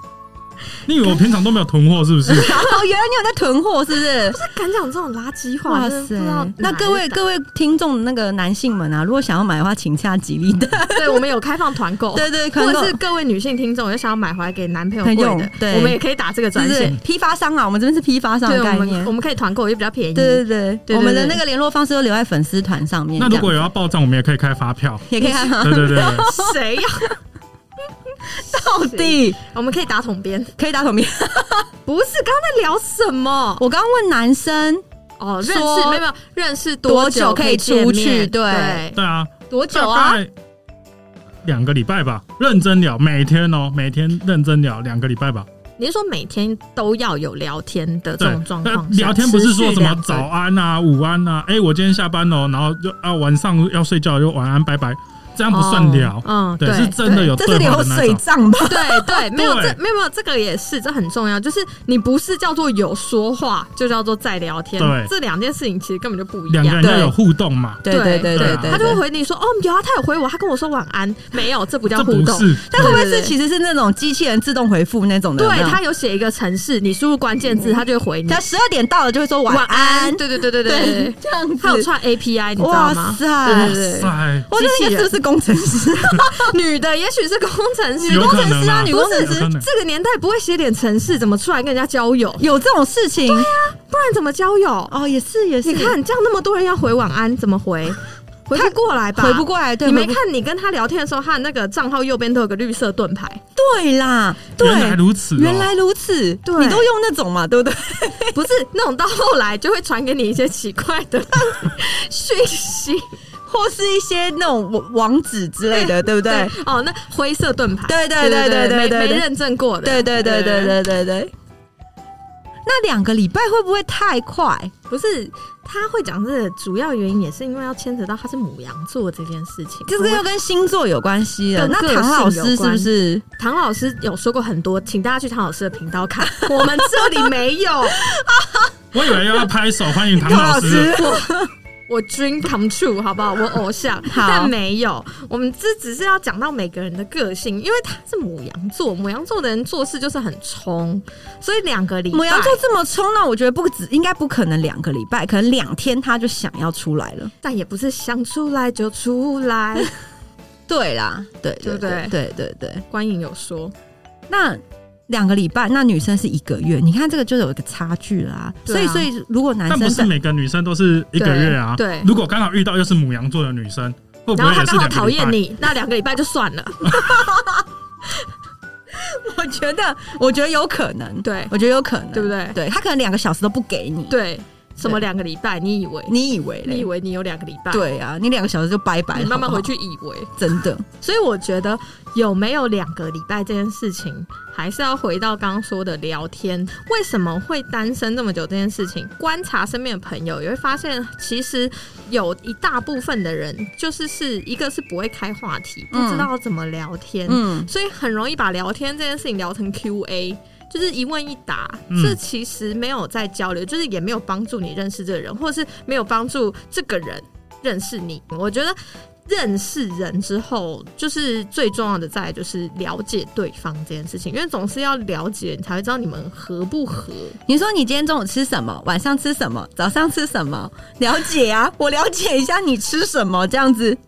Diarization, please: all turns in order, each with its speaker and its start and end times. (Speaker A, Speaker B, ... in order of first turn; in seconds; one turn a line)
Speaker A: 0.9-2.6
Speaker B: 2.3-4.4
Speaker C: 4.1-7.2
Speaker B: 5.7-11.2
Speaker C: 10.9-17.0
Speaker B: 12.1-13.0
Speaker B: 15.0-16.0
Speaker B: 16.6-19.1
Speaker C: 18.5-21.4
Speaker B: 20.1-23.5
Speaker A: 23.2-26.3
Speaker B: 25.1-26.6
Speaker C: 25.2-27.2
Speaker B: 28.3-29.4
Speaker C: 28.4-30.5
Speaker B: 30.6-31.7
Speaker C: 31.9-33.6
Speaker B: 33.6-34.8
Speaker C: 35.2-39.0
Speaker B: 35.4-36.0
Speaker B: 36.9-38.9
Speaker A: 39.0-40.3
Speaker B: 39.5-40.2
Speaker A: 41.4-45.5
Speaker C: 45.8-50.3
Speaker A: 48.2-58.2
Speaker C: 55.5-57.3
Speaker B: 57.3-59.3
Speaker C: 58.6-66.9
Speaker A: 59.4-59.8
Speaker A: 64.8-65.1
Speaker A: 66.5-68.8
Speaker B: 66.8-67.1
Speaker B: 67.8-69.0
Speaker C: 67.9-73.3
Speaker A: 71.9-73.0
Speaker B: 72.7-75.8
Speaker C: 75.4-78.4
Speaker B: 77.6-81.9
Speaker C: 79.5-85.2
Speaker B: 82.6-86.5
Speaker A: 83.5-84.5
Speaker C: 86.0-92.5
Speaker B: 88.0-89.5
Speaker A: 88.1-89.7
Speaker B: 92.4-93.5
Speaker C: 93.3-94.9
Speaker B: 94.9-96.0
Speaker C: 95.6-103.4
Speaker B: 98.5-100.2
Speaker B: 103.6-108.4
Speaker A: 104.6-105.7
Speaker C: 106.5-106.9
Speaker C: 108.3-113.1
Speaker B: 113.5-116.6
Speaker C: 115.7-120.8
Speaker B: 117.9-119.3
Speaker B: 119.8-121.3
Speaker B: 122.7-124.7
Speaker C: 124.9-130.2
Speaker B: 129.9-133.2
Speaker C: 131.6-138.1
Speaker B: 136.4-137.2
Speaker B: 138.1-138.7
Speaker A: 138.9-141.0
Speaker B: 140.1-141.5
Speaker C: 140.9-141.4
Speaker C: 141.9-152.6
Speaker B: 144.1-144.5
Speaker B: 152.1-157.3
Speaker C: 157.4-159.9
Speaker B: 160.7-162.8
Speaker C: 161.6-162.2
Speaker C: 162.9-163.7
Speaker B: 164.3-170.1
Speaker C: 168.7-169.1
Speaker A: 169.7-175.4
Speaker C: 171.2-172.1
Speaker C: 174.3-177.2
Speaker B: 176.9-177.7
Speaker B: 178.9-184.2
Speaker C: 181.2-181.5
Speaker C: 182.1-182.6
Speaker C: 184.1-187.8
Speaker B: 186.1-186.9
Speaker B: 187.7-189.7
Speaker C: 189.1-190.3
Speaker B: 190.4-190.8
Speaker C: 191.0-227.4
Speaker B: 205.9-206.3
Speaker B: 207.3-207.7
Speaker A: 211.9-212.2
Speaker B: 227.5-234.0